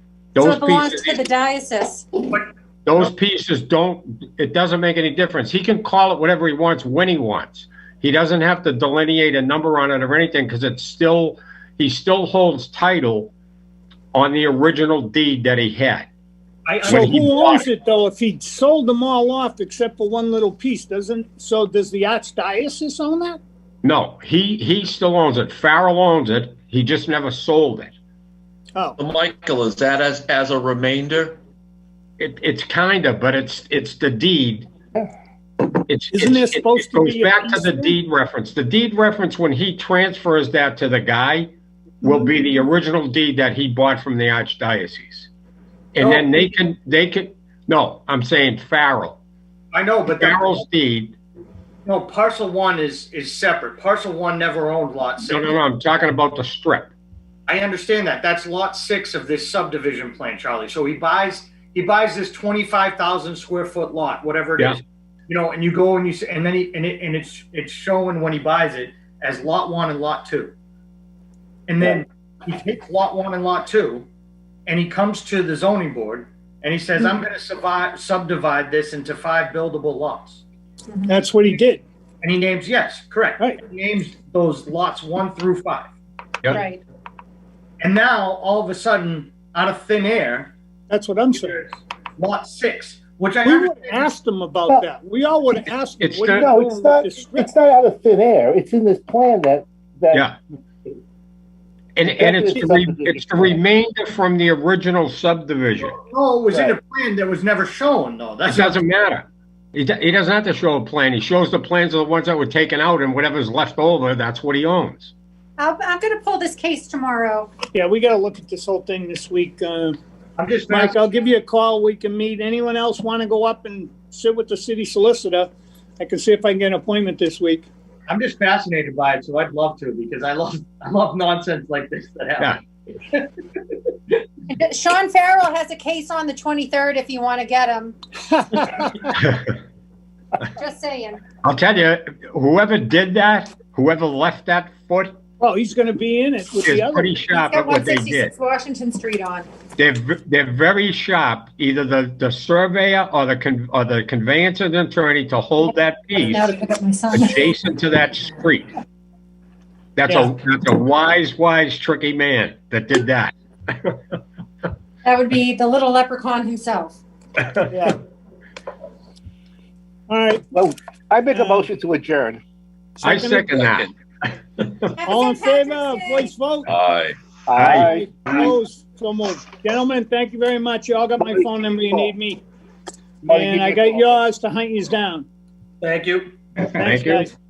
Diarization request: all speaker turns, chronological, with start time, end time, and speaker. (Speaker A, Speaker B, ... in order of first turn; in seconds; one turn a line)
Speaker A: 0.3-1.2
Speaker B: 0.3-2.1
Speaker A: 2.9-13.3
Speaker A: 14.1-16.1
Speaker C: 16.6-17.6
Speaker A: 16.9-17.7
Speaker D: 16.9-23.4
Speaker A: 23.8-27.9
Speaker E: 29.0-31.4
Speaker A: 32.2-34.7
Speaker A: 35.7-45.3
Speaker D: 36.1-37.9
Speaker A: 45.9-49.2
Speaker C: 46.0-46.3
Speaker C: 49.7-50.6
Speaker A: 50.1-51.1
Speaker C: 51.8-55.5
Speaker A: 55.3-56.9
Speaker C: 57.5-70.5
Speaker C: 71.7-74.1
Speaker C: 74.7-80.4
Speaker B: 80.9-81.2
Speaker D: 81.1-81.8
Speaker C: 82.2-85.9
Speaker B: 86.5-86.8
Speaker C: 87.8-90.5
Speaker D: 90.9-91.6
Speaker C: 91.4-94.1
Speaker D: 93.4-97.5
Speaker A: 96.0-96.5
Speaker F: 96.3-100.2
Speaker A: 102.0-106.0
Speaker F: 102.1-103.6
Speaker C: 105.8-108.8
Speaker F: 106.5-106.8
Speaker A: 108.5-115.1
Speaker B: 115.6-117.5
Speaker D: 117.7-120.0
Speaker C: 120.4-121.0
Speaker D: 120.7-127.7
Speaker C: 128.1-133.3
Speaker B: 134.5-137.9
Speaker D: 138.3-139.1
Speaker A: 139.1-139.5
Speaker B: 140.6-141.2
Speaker A: 141.4-145.2
Speaker D: 145.4-147.1
Speaker A: 146.6-148.3
Speaker B: 147.3-149.5
Speaker A: 149.8-156.5
Speaker B: 156.2-157.5
Speaker A: 157.1-158.7
Speaker A: 159.9-164.0
Speaker D: 160.1-160.3
Speaker B: 165.0-167.0
Speaker D: 167.7-168.0
Speaker D: 170.1-170.4
Speaker F: 170.5-172.4
Speaker D: 171.3-171.6
Speaker D: 173.0-173.6
Speaker A: 173.0-173.9
Speaker A: 174.6-175.0
Speaker B: 175.0-176.3
Speaker D: 175.1-176.7
Speaker E: 176.7-177.2
Speaker F: 177.5-178.4
Speaker A: 177.6-178.0
Speaker D: 177.7-182.4
Speaker F: 183.2-184.1
Speaker D: 183.3-185.2
Speaker C: 185.8-186.8
Speaker D: 186.7-187.3
Speaker A: 186.8-187.3